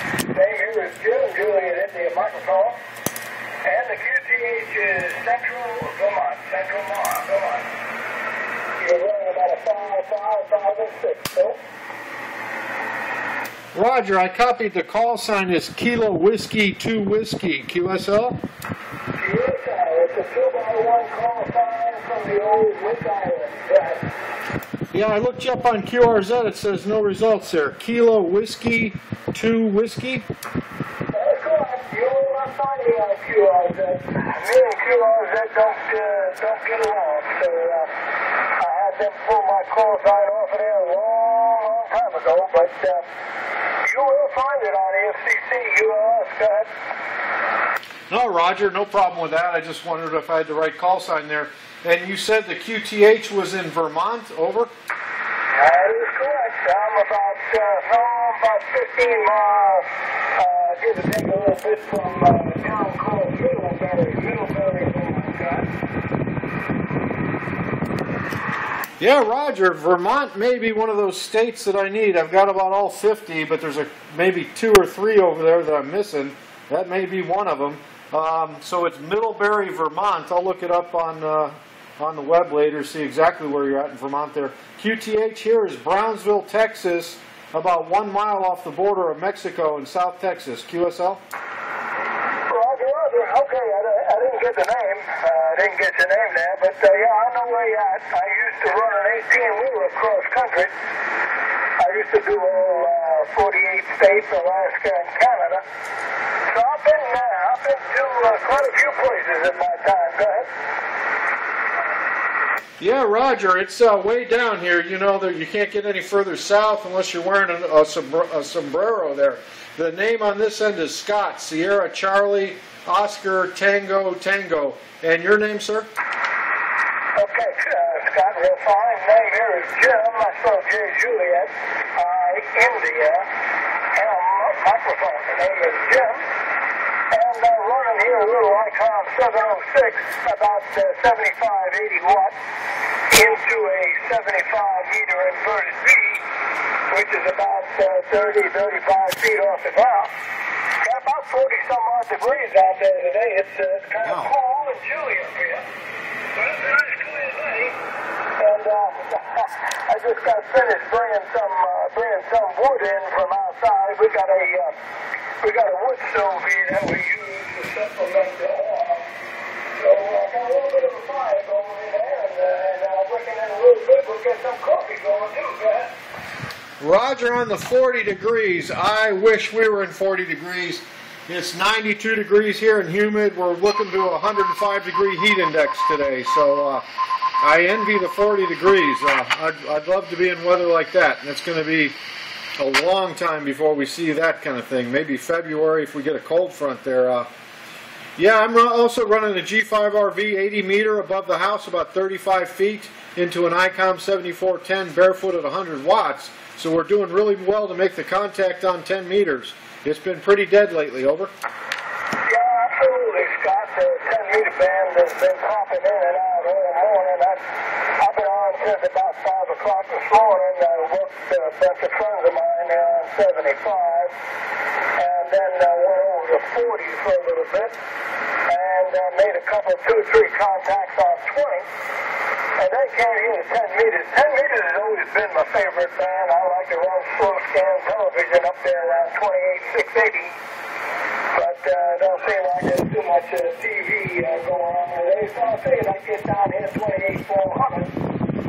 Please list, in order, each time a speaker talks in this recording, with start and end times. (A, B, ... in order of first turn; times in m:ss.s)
0:00.3-0:02.8 A
0:03.6-0:07.7 A
0:08.8-0:11.6 A
0:13.7-0:18.4 B
0:19.2-0:24.0 A
0:24.9-0:30.2 B
0:31.1-0:37.9 A
0:38.6-0:43.0 A
0:43.8-0:46.7 A
0:48.1-0:54.7 B
0:55.5-1:05.7 A
1:09.0-1:31.2 B
1:32.5-1:40.7 A
1:41.8-1:45.6 A
1:46.5-1:50.5 A
1:52.8-2:05.9 B
2:07.2-2:13.3 A
2:13.9-2:16.3 A
2:17.1-2:22.4 A
2:23.1-2:26.2 A
2:26.9-2:30.1 A
2:30.8-2:35.7 A
2:34.0-2:34.3 B
2:36.3-2:37.8 A
2:38.3-2:44.8 A
2:45.4-2:49.1 A
2:49.8-2:55.9 A
2:56.8-3:06.8 B
3:07.4-3:11.9 B
3:12.6-3:17.3 B
3:18.2-3:31.3 B
3:32.2-3:44.1 A
3:45.0-3:47.7 A
3:48.5-3:51.7 A
3:52.6-4:00.4 A
4:01.3-4:07.9 A